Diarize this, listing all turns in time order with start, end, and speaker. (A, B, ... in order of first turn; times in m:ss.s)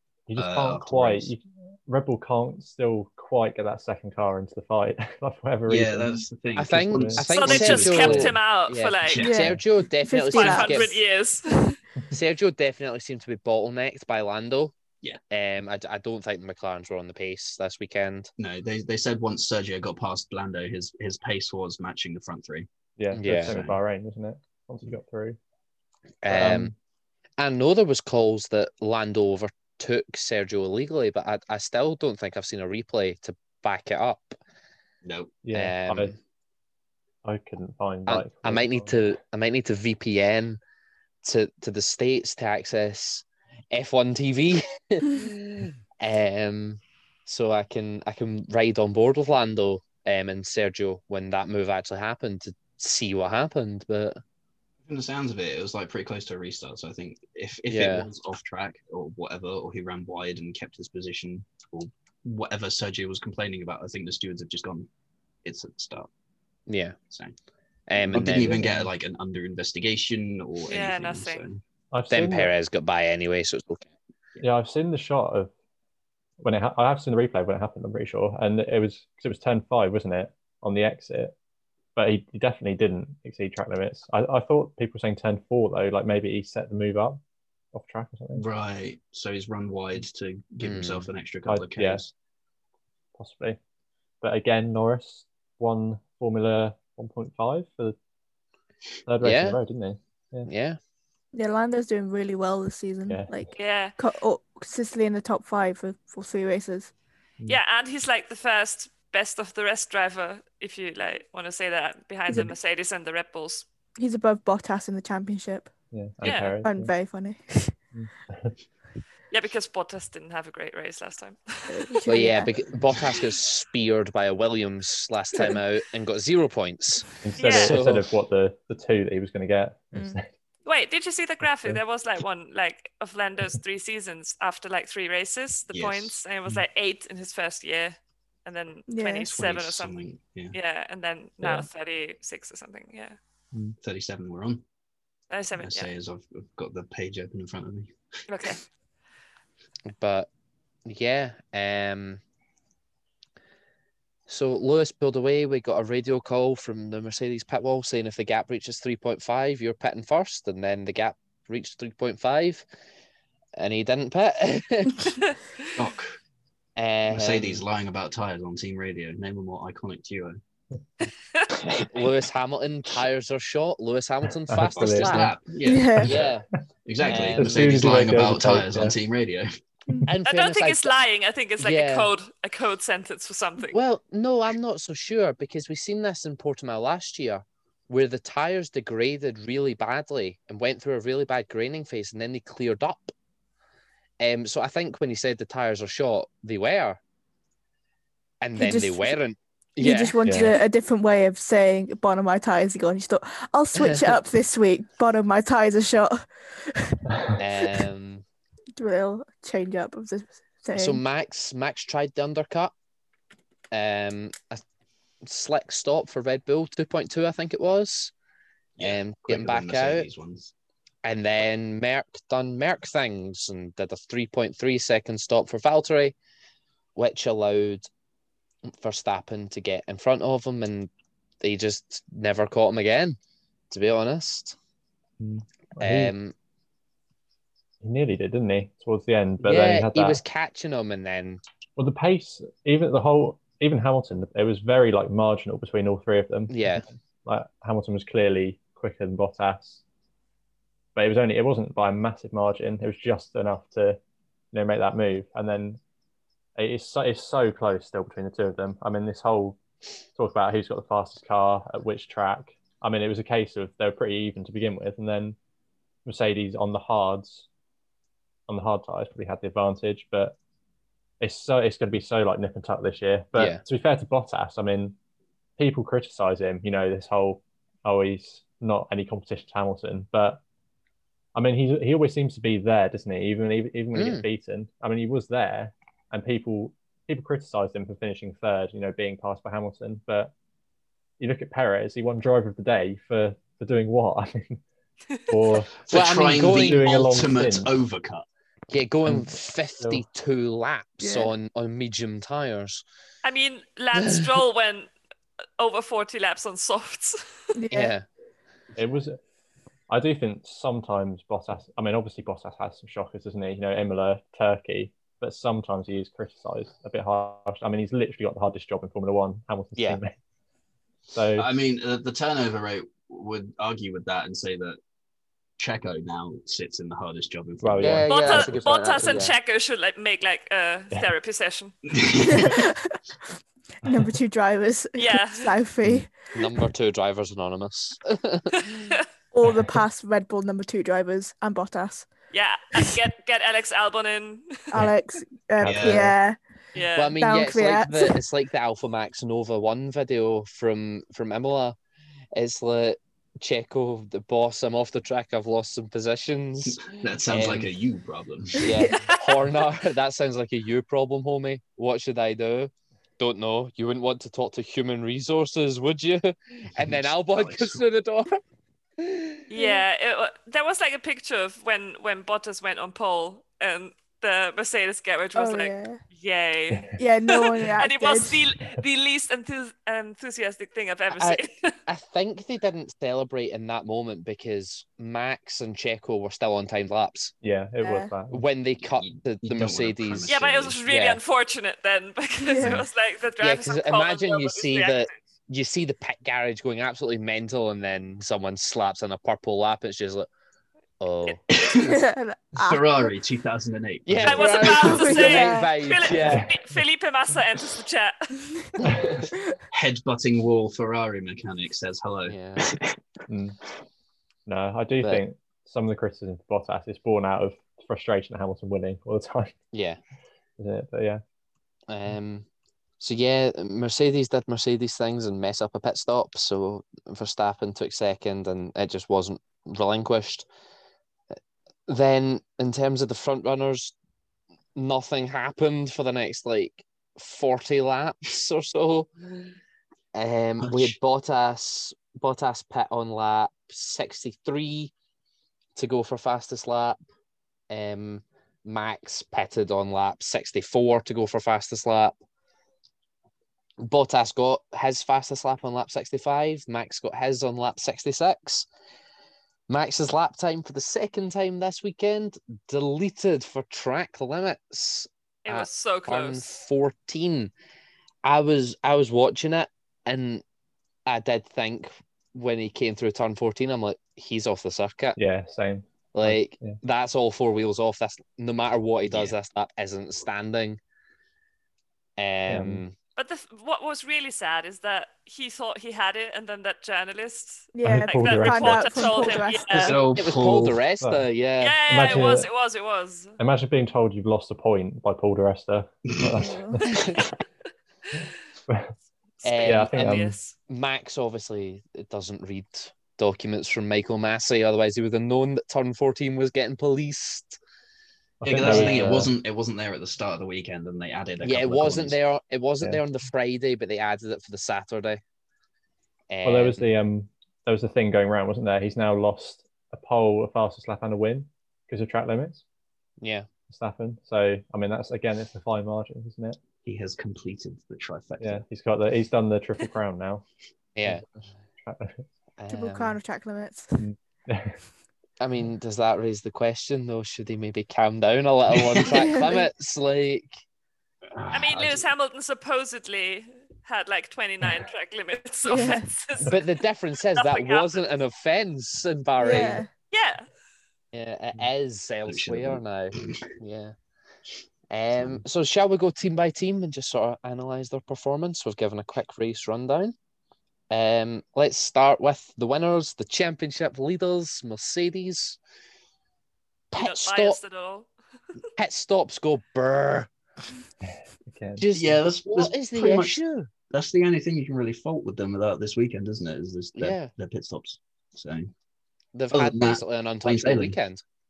0:00.3-0:06.2 A
0:00.4-0:01.3 B
0:05.7-0:08.4 B
0:06.6-0:11.0 C
0:06.8-0:07.2 A
0:07.3-0:09.3 D
0:09.1-0:09.5 B
0:09.2-0:10.9 E
0:10.3-0:11.8 D
0:12.1-0:14.7 C
0:15.3-0:18.3 C
0:18.4-0:22.7 B
0:23.0-0:25.4 A
0:23.1-0:23.6 C
0:23.2-0:23.8 B
0:26.2-0:26.7 C
0:26.3-0:26.7 A
0:27.4-0:34.4 C
0:35.0-0:35.4 B
0:35.4-0:36.1 A
0:35.5-0:36.2 C
0:37.2-0:39.0 A
0:38.1-0:40.6 C
0:41.2-0:54.2 C
0:54.9-1:04.9 B
0:57.7-0:58.1 C
1:05.4-1:06.1 B
1:06.7-1:07.0 C
1:07.1-1:07.3 B
1:07.9-1:08.6 C
1:08.0-1:11.6 B
1:08.5-1:08.9 A
1:10.7-1:11.5 D
1:11.9-1:12.5 A
1:12.1-1:13.9 C
1:14.4-1:15.5 A
1:16.4-1:21.3 A
1:22.0-1:27.2 A
1:27.7-1:28.4 A
1:28.3-1:32.1 B
1:30.6-1:31.1 C
1:31.5-1:32.0 A
1:33.2-1:33.6 A
1:34.2-1:38.0 A
1:39.1-1:40.5 A
1:39.2-1:39.6 C
1:40.4-1:40.8 C
1:41.3-1:46.9 E
1:43.6-1:44.0 D
1:47.5-1:53.6 D
1:54.0-1:55.7 E
1:55.9-1:56.9 A
1:56.2-1:56.6 D
1:56.6-1:57.8 E
1:57.9-1:58.5 A
1:59.3-2:02.2 D
2:01.7-2:02.5 E
2:02.0-2:08.1 C
2:07.2-2:10.3 A
2:07.4-2:07.8 D
2:09.9-2:10.2 E
2:10.6-2:20.0 D
2:15.7-2:16.1 B
2:18.9-2:19.3 E
2:19.3-2:20.6 B
2:20.5-2:23.2 D
2:21.4-2:21.7 A
2:23.8-2:24.6 B
2:25.3-2:26.0 D
2:25.6-2:28.0 B
2:28.3-2:28.6 D
2:29.9-2:30.3 C
2:30.9-2:32.2 C
2:34.3-2:42.6 C
2:43.6-2:45.1 C
2:45.8-2:46.1 B
2:46.8-2:47.6 C
2:47.1-2:50.4 B
2:51.0-2:51.5 D
2:51.9-2:55.3 C
2:54.5-2:55.3 A
2:54.6-2:56.3 B
2:55.6-2:56.1 E
2:56.0-2:56.4 C
2:56.8-2:59.5 B
2:57.0-2:58.1 C
2:57.1-2:58.9 A
3:00.1-3:00.9 C
3:00.3-3:03.8 D
3:01.6-3:02.1 C
3:03.7-3:13.1 C
3:14.2-3:17.0 C
3:18.4-3:20.6 C
3:18.6-3:19.2 E
3:19.8-3:27.0 E
3:20.2-3:20.5 A
3:23.7-3:24.2 C
3:27.4-3:28.2 C
3:28.8-3:31.0 E
3:30.7-3:32.7 C
3:33.7-3:34.6 C
3:35.2-3:38.1 C
3:38.8-3:40.5 B
3:38.8-3:40.1 C
3:41.0-3:46.1 C
3:47.0-3:47.9 C
3:48.7-3:53.2 C
3:53.7-3:54.6 C
3:55.2-3:56.1 A
3:55.8-3:56.3 C
3:57.8-4:00.2 A
3:59.4-4:01.4 C
4:01.8-4:09.8 A
4:06.5-4:06.8 C
4:11.0-4:14.0 A
4:14.5-4:15.8 A
4:16.6-4:19.6 A
4:20.1-4:25.4 A
4:26.0-4:27.5 A
4:28.5-4:30.4 A
4:31.2-4:35.0 A
4:33.4-4:33.6 C
4:35.6-4:40.4 A
4:41.3-4:50.3 A
4:44.0-4:44.3 C
4:51.2-4:54.6 A
4:55.3-4:55.7 A
4:55.8-4:58.2 B
4:55.9-4:56.9 C
4:56.3-4:57.7 A
4:58.7-5:02.8 C
4:59.0-5:00.0 A
5:01.0-5:01.3 E
5:03.2-5:04.9 D
5:04.0-5:04.4 C
5:05.6-5:07.2 D
5:07.6-5:07.9 E
5:07.7-5:08.0 C
5:08.8-5:09.2 A
5:09.9-5:20.1 A
5:19.8-5:20.0 C
5:21.1-5:21.5 A
5:21.3-5:24.8 B
5:25.6-5:28.3 B
5:27.6-5:28.6 A
5:27.8-5:29.4 C
5:28.1-5:31.8 D
5:31.9-5:32.5 B
5:32.1-5:33.0 E
5:33.8-5:36.1 E
5:33.8-5:34.1 A
5:35.0-5:35.5 D
5:36.3-5:38.9 C
5:39.3-5:42.1 E
5:39.4-5:39.8 A
5:42.3-5:44.7 D
5:44.7-5:46.4 E
5:45.6-5:46.1 A
5:45.6-5:46.1 B
5:46.7-5:47.2 D
5:47.0-5:51.8 C
5:47.2-5:48.2 E
5:52.3-5:57.7 C
5:56.6-5:58.7 B
5:58.6-6:08.4 C
5:58.7-5:59.1 E
6:06.8-6:07.8 B
6:09.0-6:09.4 C
6:09.5-6:21.7 D
6:09.6-6:09.8 E
6:15.4-6:16.0 E
6:16.7-6:17.0 A
6:17.0-6:18.4 E
6:21.1-6:27.3 C
6:27.4-6:28.4 A
6:27.8-6:28.1 E
6:28.3-6:31.2 C
6:28.8-6:30.8 B
6:30.3-6:35.1 D
6:32.4-6:32.8 E
6:33.4-6:40.3 C
6:41.0-6:41.4 C
6:41.5-6:42.0 B
6:41.8-6:43.1 E
6:42.6-6:45.2 B
6:44.0-6:46.5 C
6:44.3-6:48.6 D
6:44.8-6:45.7 E
6:46.2-6:46.8 A
6:48.9-6:49.2 A
6:49.7-6:52.4 B
6:52.3-6:52.6 C
6:53.3-6:53.6 A
6:54.4-6:59.6 A
6:59.7-7:00.0 C
7:00.6-7:01.2 A
7:01.9-7:02.5 C
7:03.0-7:10.5 C
7:11.9-7:13.9 C
7:14.8-7:19.1 C
7:20.1-7:24.9 C
7:20.6-7:21.0 B
7:25.8-7:27.0 C
7:27.7-7:32.2 C
7:33.8-7:38.7 C
7:39.7-7:47.5 C
7:45.4-7:46.4 D
7:48.2-7:50.4 C
7:51.0-7:55.2 C
7:55.2-7:56.8 A
7:56.1-8:00.8 C
7:59.1-7:59.4 B
8:02.2-8:03.0 C
8:02.5-8:02.8 A
8:03.2-8:10.0 D
8:07.7-8:10.0 E
8:07.8-8:09.2 A
8:09.7-8:10.8 B
8:10.1-8:11.8 C
8:11.6-8:13.4 D
8:11.9-8:12.5 A
8:13.4-8:16.9 A
8:16.3-8:16.8 E
8:19.4-8:20.6 D
8:19.4-8:27.6 C
8:19.6-8:20.4 A
8:28.4-8:29.3 A
8:28.4-8:32.2 B
8:28.6-8:29.3 C
8:31.4-8:35.2 C
8:36.3-8:36.9 C
8:36.4-8:42.6 A
8:43.2-8:43.5 C
8:43.7-8:46.6 A
8:46.8-8:48.6 B
8:48.4-8:50.4 A
8:51.0-8:51.2 C
8:51.8-8:52.2 A
8:52.6-8:53.2 C
8:52.7-8:54.0 E
8:54.0-8:54.8 A
8:55.4-9:00.5 C
8:59.1-8:59.7 E
9:01.3-9:02.0 B
9:01.5-9:06.6 D
9:05.6-9:06.4 E
9:06.5-9:09.8 C
9:07.3-9:08.0 D
9:09.4-9:09.9 E
9:10.1-9:10.5 D
9:11.1-9:14.0 C
9:12.3-9:13.4 B
9:14.9-9:20.1 C
9:15.2-9:15.4 B
9:20.9-9:25.6 C
9:26.9-9:27.6 C
9:27.0-9:28.1 D
9:28.8-9:30.3 C
9:31.0-9:31.8 A
9:31.8-9:33.7 C
9:31.9-9:38.7 B
9:37.0-9:37.3 C
9:39.3-9:41.2 C
9:39.5-9:41.0 B